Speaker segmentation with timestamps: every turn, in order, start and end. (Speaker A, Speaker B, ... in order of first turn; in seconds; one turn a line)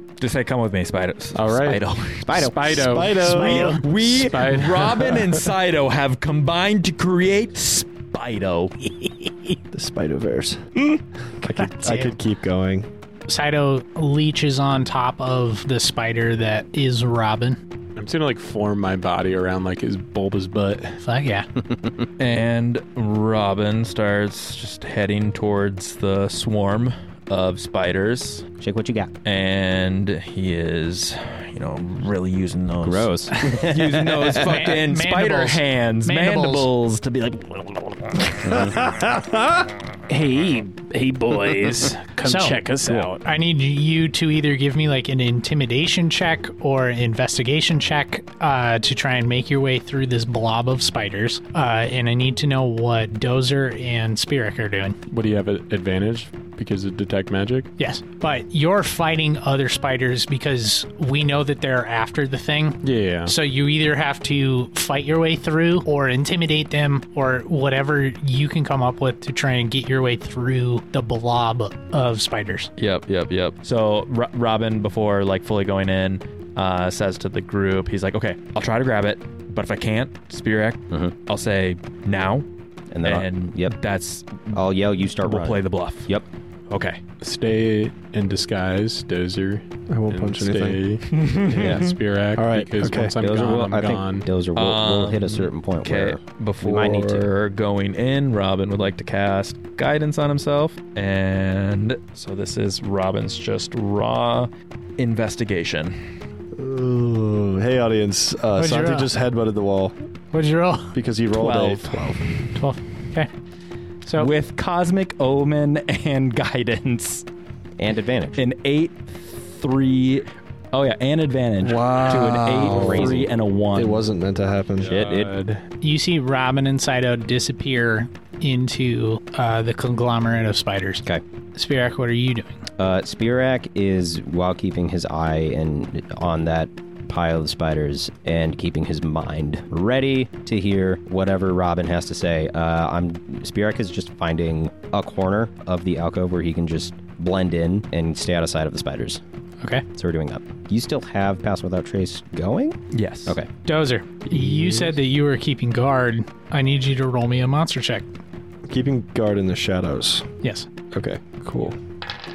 Speaker A: 0.2-2.5
Speaker B: 1.3-1.8
Speaker C: 2.2-2.8
Speaker B: 2.4-5.4
Speaker D: 2.7-4.2
Speaker E: 3.2-3.8
Speaker A: 3.3-8.9
Speaker D: 9.7-10.8
Speaker D: 11.4-12.9
Speaker E: 11.6-12.2
Speaker E: 13.3-17.6
Speaker B: 17.9-21.0
Speaker E: 21.0-21.5
Speaker C: 21.6-21.9
Speaker A: 22.2-28.4
Speaker C: 28.6-29.1
Speaker A: 29.2-38.9
Speaker C: 32.8-34.7
Speaker E: 34.4-36.7
Speaker C: 38.4-38.8
Speaker D: 38.7-39.6
Speaker F: 40.1-43.2
Speaker E: 42.2-42.6
Speaker E: 43.2-55.0
Speaker B: 55.1-57.7
Speaker E: 57.8-72.7
Speaker B: 62.8-63.3
Speaker A: 72.8-82.4
Speaker C: 82.9-83.7
Speaker A: 83.0-86.1
Speaker C: 84.5-86.2
Speaker A: 86.7-87.0
Speaker B: 87.2-94.3
Speaker D: 89.9-91.0
Speaker A: 91.2-91.8
Speaker D: 91.5-93.2
Speaker C: 91.6-91.9
Speaker C: 93.2-97.2
Speaker A: 94.5-105.9
Speaker D: 106.5-109.9
Speaker E: 108.6-109.1
Speaker E: 110.3-111.0
Speaker D: 110.9-112.3
Speaker A: 111.3-112.1
Speaker E: 112.5-113.3
Speaker E: 114.0-114.3
Speaker A: 114.2-117.2
Speaker C: 117.8-118.4
Speaker A: 118.4-124.0
Speaker D: 121.6-125.0
Speaker B: 122.7-123.0
Speaker C: 122.7-123.3
Speaker B: 124.9-125.6
Speaker C: 124.9-125.3
Speaker E: 125.8-132.6
Speaker C: 132.8-149.2
Speaker C: 149.9-153.5
Speaker A: 152.9-153.4
Speaker E: 153.6-158.1
Speaker D: 154.2-155.0
Speaker D: 158.7-160.3
Speaker E: 160.4-160.7
Speaker D: 160.9-161.8